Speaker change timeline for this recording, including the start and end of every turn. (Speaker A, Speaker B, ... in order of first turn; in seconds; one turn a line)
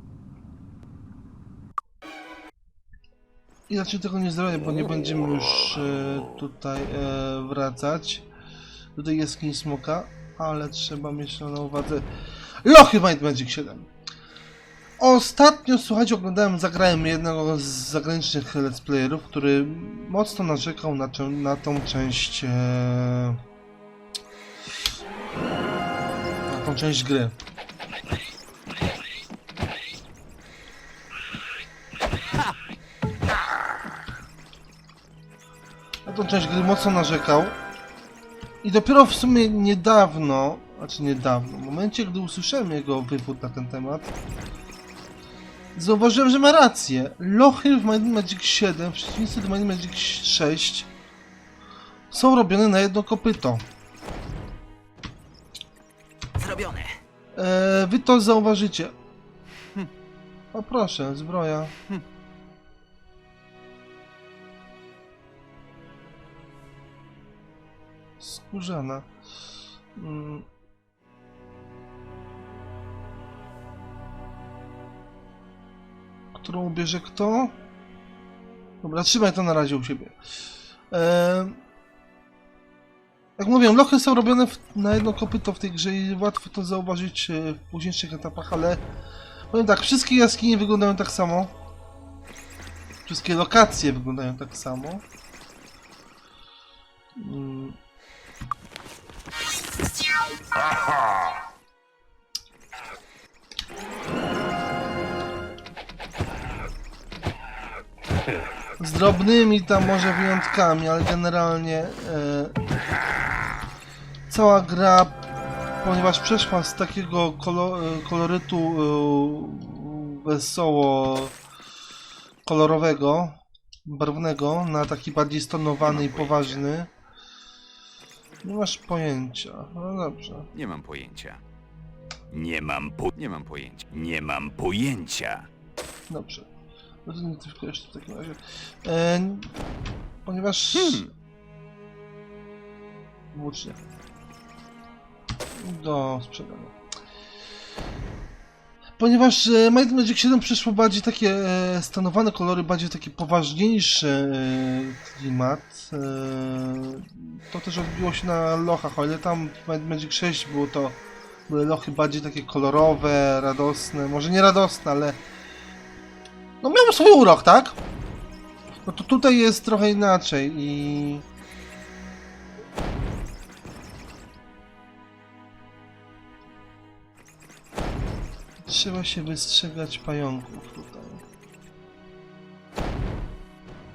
Speaker A: 3.7-8.2
Speaker A: 9.0-12.1
Speaker A: 12.6-13.9
Speaker A: 15.0-23.4
Speaker A: 26.5-27.4
Speaker A: 36.1-37.6
Speaker A: 38.6-44.1
Speaker A: 45.8-50.9
Speaker A: 52.1-53.6
Speaker B: 56.4-56.9
Speaker A: 57.4-58.9
Speaker A: 60.5-61.7
Speaker A: 68.2-69.1
Speaker A: 70.0-70.5
Speaker A: 76.3-77.6
Speaker A: 78.8-80.2
Speaker A: 80.9-81.6
Speaker A: 83.4-88.8
Speaker A: 89.5-91.5
Speaker A: 93.1-95.0
Speaker A: 97.2-97.8
Speaker A: 108.8-112.5
Speaker A: 114.3-115.2
Speaker A: 115.8-121.4
Speaker A: 122.4-126.9
Speaker B: 125.8-126.6
Speaker A: 128.4-130.5
Speaker B: 130.5-131.4
Speaker B: 132.3-135.5
Speaker A: 136.1-136.5
Speaker A: 137.1-139.7
Speaker A: 140.2-141.1
Speaker B: 140.7-141.1
Speaker A: 143.3-143.8
Speaker A: 145.6-146.8
Speaker A: 149.0-165.2
Speaker A: 166.6-167.8
Speaker A: 168.9-171.2
Speaker A: 178.6-181.2